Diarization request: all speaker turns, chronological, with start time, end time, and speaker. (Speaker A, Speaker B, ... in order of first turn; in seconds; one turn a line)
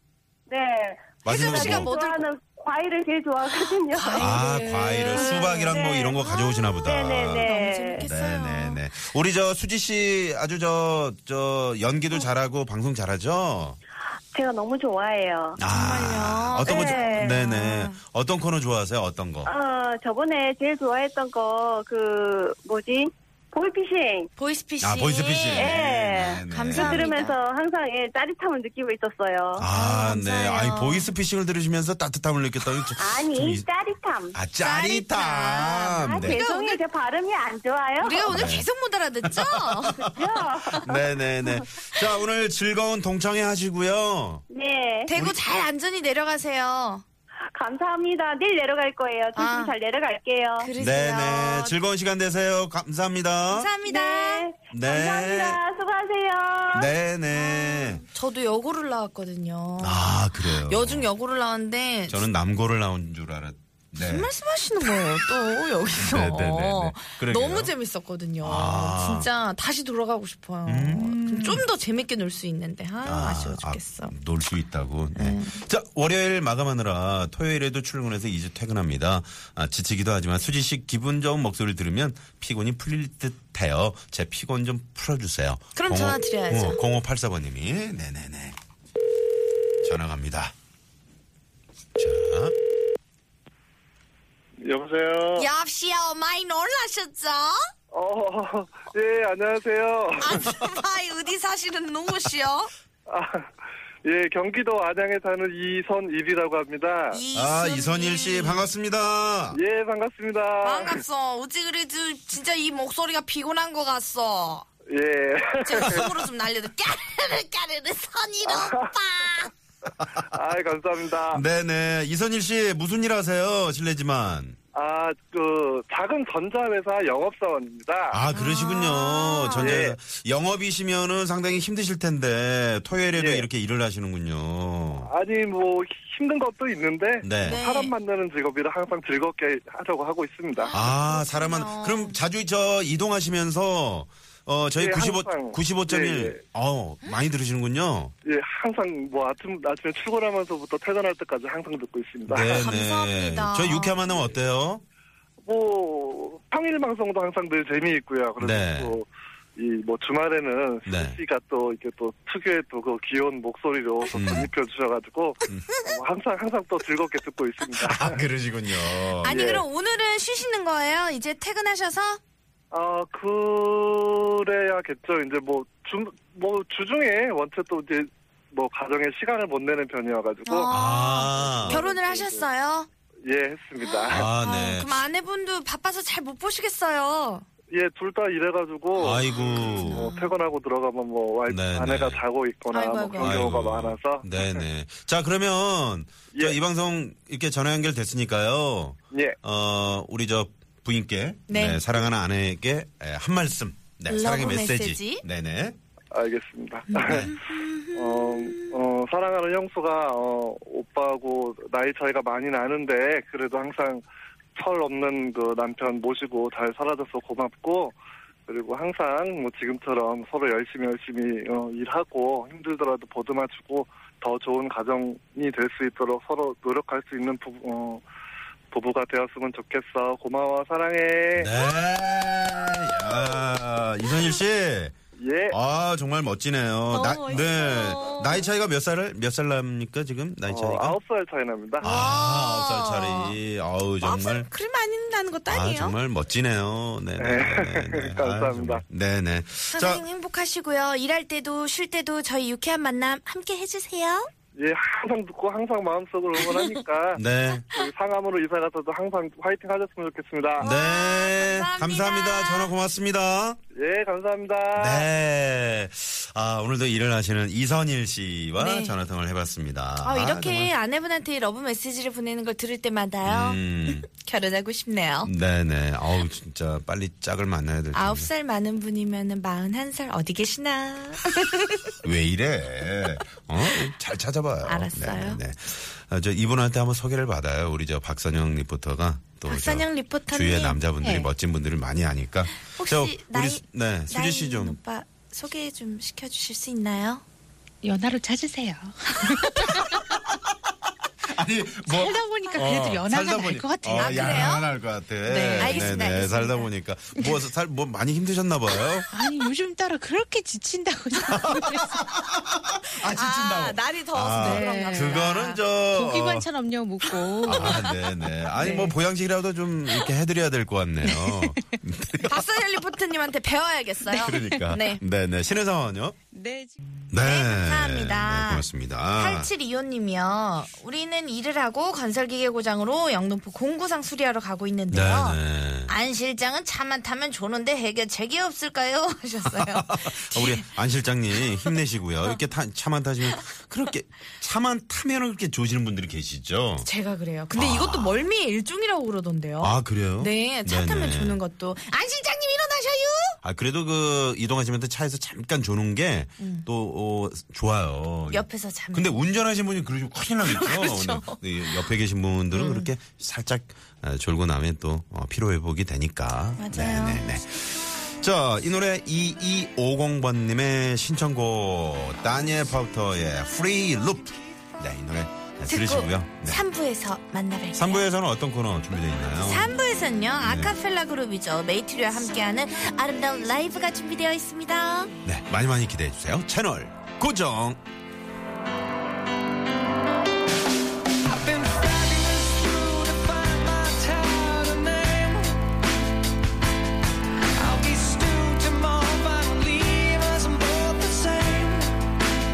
Speaker A: 0.5-4.4
Speaker B: 1.2-1.9
Speaker C: 1.2-2.2
Speaker C: 3.5-8.8
Speaker B: 4.2-13.8
Speaker A: 6.9-8.1
Speaker A: 14.3-15.6
Speaker B: 15.6-19.5
Speaker C: 15.6-18.0
Speaker A: 16.7-17.3
Speaker A: 19.5-24.3
Speaker C: 24.4-25.8
Speaker B: 24.8-27.1
Speaker A: 25.6-29.7
Speaker D: 25.8-26.8
Speaker C: 26.5-27.4
Speaker B: 29.6-33.6
Speaker C: 29.7-31.1
Speaker A: 33.0-34.4
Speaker B: 34.3-36.4
Speaker C: 34.6-36.8
Speaker A: 36.1-38.3
Speaker C: 38.0-40.1
Speaker B: 38.3-38.7
Speaker B: 39.2-40.1
Speaker A: 40.2-40.7
Speaker C: 40.7-41.0
Speaker B: 40.8-44.4
Speaker A: 44.5-45.1
Speaker C: 45.1-47.0
Speaker B: 45.1-45.4
Speaker A: 47.5-50.7
Speaker C: 49.4-49.7
Speaker C: 50.6-51.8
Speaker B: 50.8-53.7
Speaker C: 53.5-54.5
Speaker A: 53.9-56.8
Speaker B: 54.7-55.6
Speaker B: 56.7-58.0
Speaker C: 57.3-62.3
Speaker B: 59.8-61.1
Speaker B: 62.1-64.3
Speaker C: 64.0-74.1
Speaker B: 65.9-67.7
Speaker B: 68.4-69.3
Speaker B: 70.7-71.7
Speaker B: 73.0-88.6
Speaker C: 75.2-75.6
Speaker C: 85.8-86.8
Speaker B: 89.8-90.5
Speaker B: 92.0-92.5
Speaker D: 94.6-95.5
Speaker C: 95.3-97.7
Speaker D: 97.9-100.5
Speaker C: 100.2-102.7
Speaker D: 103.1-103.5
Speaker D: 104.0-107.2
Speaker C: 107.1-108.7
Speaker B: 107.3-109.6
Speaker D: 109.5-111.0
Speaker C: 110.6-114.7
Speaker D: 114.9-116.1
Speaker C: 115.6-119.5
Speaker D: 120.2-121.4
Speaker B: 121.3-124.6
Speaker D: 124.7-128.2
Speaker B: 128.1-135.1
Speaker C: 128.3-129.8
Speaker D: 129.6-130.0
Speaker D: 133.1-133.5
Speaker D: 135.0-140.9
Speaker B: 137.2-137.6
Speaker C: 137.4-137.9
Speaker C: 140.6-142.2
Speaker B: 140.7-148.1
Speaker D: 144.8-146.4
Speaker D: 148.2-152.7
Speaker B: 152.3-154.8
Speaker C: 152.5-154.2
Speaker D: 155.4-168.2
Speaker B: 158.4-159.0
Speaker B: 160.9-161.2
Speaker B: 164.1-164.5
Speaker B: 167.8-169.3
Speaker C: 169.2-172.2
Speaker D: 169.2-169.7
Speaker D: 172.7-180.7
Speaker C: 180.4-182.9
Speaker B: 180.7-181.8
Speaker D: 181.3-182.5
Speaker D: 183.3-184.3
Speaker C: 183.8-187.4
Speaker B: 184.1-185.0
Speaker D: 187.7-194.6
Speaker B: 189.0-190.1
Speaker C: 189.5-190.3
Speaker B: 191.5-192.2
Speaker C: 192.7-193.4
Speaker B: 193.2-205.8
Speaker D: 196.3-196.6
Speaker C: 201.5-201.8
Speaker C: 204.1-205.2
Speaker D: 206.1-207.3
Speaker C: 206.9-208.8
Speaker B: 207.0-207.4
Speaker D: 207.9-214.0
Speaker D: 214.6-217.9
Speaker D: 218.5-228.0
Speaker D: 228.7-231.5
Speaker B: 231.4-234.9
Speaker C: 232.9-234.4
Speaker D: 235.2-235.6
Speaker B: 235.5-241.0
Speaker C: 236.9-238.5
Speaker D: 240.5-241.9
Speaker C: 241.8-243.4
Speaker B: 241.8-244.5
Speaker C: 244.0-246.0
Speaker B: 245.5-250.0
Speaker D: 247.2-248.8
Speaker C: 249.7-254.3
Speaker D: 254.6-260.7
Speaker B: 257.1-257.7
Speaker C: 260.6-262.7
Speaker B: 260.6-263.6
Speaker D: 263.8-265.1
Speaker B: 264.8-270.7
Speaker C: 268.6-268.9
Speaker C: 270.0-275.3
Speaker B: 273.2-274.1
Speaker B: 275.2-278.3
Speaker C: 277.9-281.9
Speaker B: 282.0-294.8
Speaker C: 284.6-285.4
Speaker C: 289.5-290.8
Speaker E: 291.0-291.3
Speaker C: 292.6-297.2
Speaker E: 297.8-300.2
Speaker B: 299.6-300.4
Speaker B: 301.3-309.1
Speaker E: 301.8-304.6
Speaker C: 303.9-304.7
Speaker E: 305.2-306.0
Speaker C: 305.6-306.7
Speaker E: 309.1-312.1
Speaker B: 311.3-316.5
Speaker C: 313.0-315.6
Speaker E: 314.3-318.0
Speaker C: 317.4-318.0
Speaker B: 317.4-322.5
Speaker E: 318.6-318.9
Speaker E: 321.1-321.8
Speaker C: 322.2-325.0
Speaker E: 324.1-324.7
Speaker B: 324.1-326.2
Speaker E: 326.3-326.8
Speaker B: 327.1-329.5
Speaker C: 327.2-340.7
Speaker B: 334.9-335.9
Speaker B: 339.5-346.9
Speaker C: 341.4-342.4
Speaker C: 346.8-353.4
Speaker B: 347.5-348.3
Speaker B: 349.6-351.4
Speaker B: 353.4-376.6
Speaker C: 356.4-356.7
Speaker C: 358.3-359.2
Speaker C: 360.4-361.9
Speaker C: 362.5-362.9
Speaker C: 366.6-367.2
Speaker C: 375.7-378.1
Speaker B: 377.8-379.7
Speaker C: 379.4-385.1
Speaker B: 380.4-380.8
Speaker B: 385.2-387.8
Speaker E: 391.2-395.6
Speaker E: 397.6-401.9